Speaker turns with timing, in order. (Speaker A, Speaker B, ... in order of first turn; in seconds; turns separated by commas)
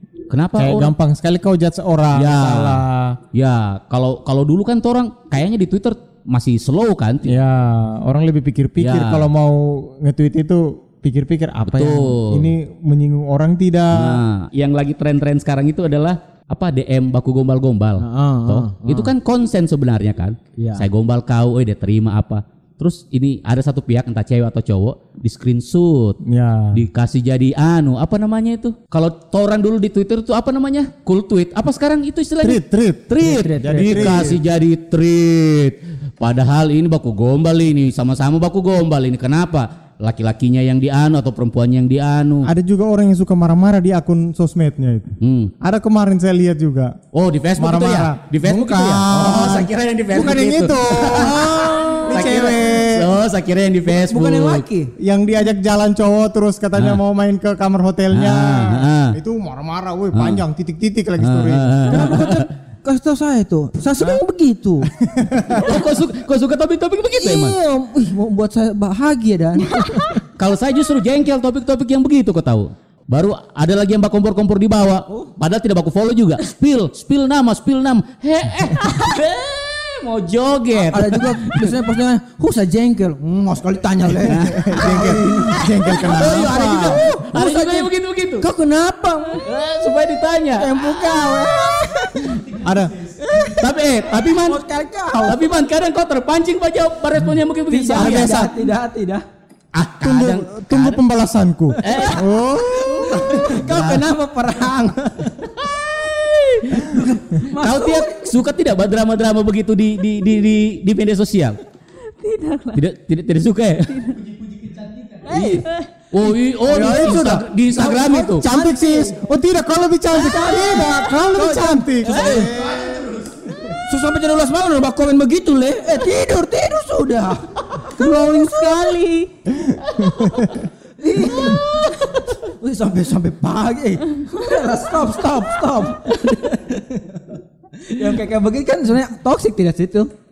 Speaker A: 0.3-0.9, Speaker B: 0.6-3.2, Speaker A: 2.1-7.3, Speaker B: 7.2-14.2, Speaker A: 8.8-9.3, Speaker A: 11.7-12.5, Speaker A: 13.9-26.2, Speaker C: 18.0-19.1, Speaker C: 20.6-20.8, Speaker B: 26.2-26.8, Speaker A: 26.7-42.5, Speaker B: 32.4-33.1, Speaker C: 33.2-34.4, Speaker B: 33.6-34.4, Speaker B: 42.4-47.0, Speaker A: 45.2-45.5, Speaker A: 47.1-54.6, Speaker B: 47.6-53.1, Speaker C: 49.1-49.7, Speaker C: 51.0-52.5, Speaker C: 53.9-54.9, Speaker B: 55.0-62.0, Speaker A: 56.7-57.0, Speaker A: 58.1-59.2, Speaker A: 60.1-60.4, Speaker A: 61.2-62.4, Speaker C: 61.9-64.9, Speaker B: 64.9-65.8, Speaker A: 65.6-67.5, Speaker C: 67.1-70.2, Speaker A: 70.4-81.8, Speaker C: 75.1-75.3, Speaker C: 80.7-89.5, Speaker A: 84.2-88.5, Speaker B: 84.4-87.0, Speaker A: 89.4-91.1, Speaker C: 90.6-92.6, Speaker B: 92.6-93.1, Speaker C: 93.2-95.5, Speaker A: 93.3-94.6, Speaker A: 95.2-98.7, Speaker C: 97.7-99.2, Speaker A: 99.7-101.0, Speaker B: 100.0-103.6, Speaker A: 101.8-102.3, Speaker C: 101.8-102.2, Speaker C: 102.8-105.8, Speaker A: 103.2-104.1, Speaker A: 106.1-111.6, Speaker C: 106.6-108.4, Speaker D: 112.2-112.8, Speaker A: 112.7-118.4, Speaker D: 113.9-114.2, Speaker C: 115.2-115.7, Speaker C: 116.7-119.2, Speaker B: 116.7-117.5, Speaker B: 118.4-123.1, Speaker C: 120.1-122.9, Speaker A: 122.1-123.0, Speaker C: 123.7-128.9, Speaker D: 127.9-129.3, Speaker B: 129.6-130.6, Speaker C: 131.0-140.1